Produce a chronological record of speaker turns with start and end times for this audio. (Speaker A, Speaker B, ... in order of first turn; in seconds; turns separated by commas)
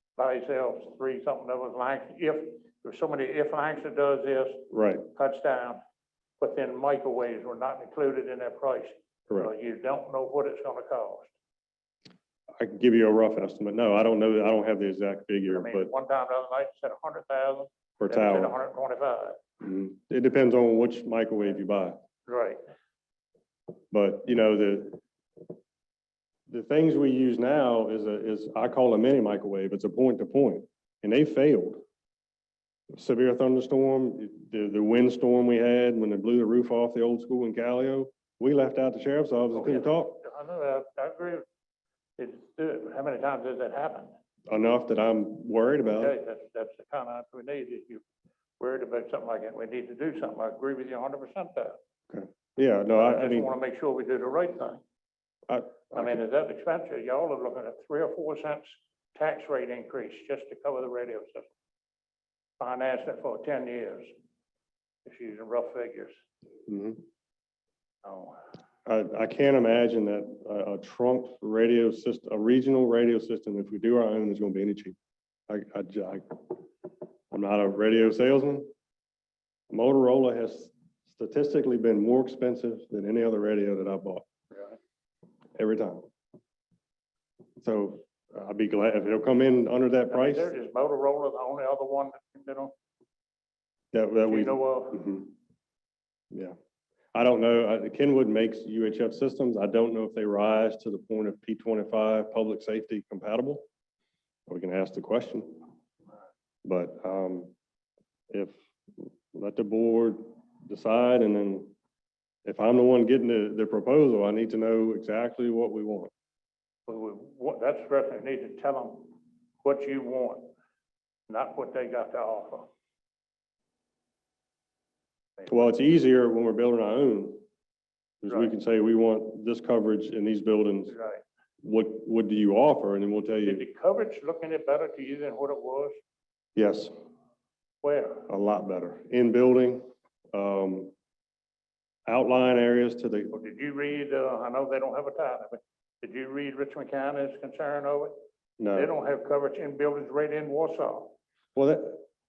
Speaker A: 0.2-5.8, Speaker B: 4.7-5.0, Speaker A: 6.4-11.3, Speaker B: 12.6-15.9, Speaker A: 15.5-19.4, Speaker B: 18.0-18.6, Speaker B: 19.6-22.0, Speaker A: 22.3-22.6, Speaker B: 23.9-25.0, Speaker B: 26.5-31.8, Speaker B: 32.9-40.2, Speaker A: 39.5-41.4, Speaker A: 42.2-44.1, Speaker B: 44.5-46.1, Speaker A: 46.0-48.0, Speaker A: 48.6-51.8, Speaker B: 52.1-53.5, Speaker A: 52.9-54.8, Speaker B: 55.5-56.2, Speaker A: 55.9-61.5, Speaker A: 62.6-64.1, Speaker A: 65.1-66.2, Speaker B: 66.7-67.0, Speaker A: 68.0-68.4, Speaker B: 68.9-75.0, Speaker B: 75.5-76.6, Speaker B: 77.3-78.7, Speaker B: 79.7-84.3, Speaker A: 84.5-84.8, Speaker B: 85.6-86.1, Speaker B: 87.6-90.5, Speaker A: 90.1-92.8, Speaker B: 93.9-95.3, Speaker A: 94.3-95.1, Speaker B: 97.1-103.7, Speaker B: 104.5-105.6, Speaker B: 106.7-107.5, Speaker B: 108.3-111.7, Speaker B: 112.5-116.1, Speaker A: 116.9-120.5, Speaker A: 121.3-122.7, Speaker A: 125.4-125.7, Speaker B: 125.5-127.4, Speaker B: 128.2-130.9, Speaker A: 130.9-131.2, Speaker B: 131.6-133.6, Speaker A: 133.4-136.0, Speaker B: 136.6-136.9, Speaker A: 137.8-138.3, Speaker B: 138.3-140.9, Speaker B: 142.1-143.3, Speaker A: 143.3-148.1, Speaker B: 148.6-148.9, Speaker A: 148.8-151.2, Speaker B: 151.6-152.0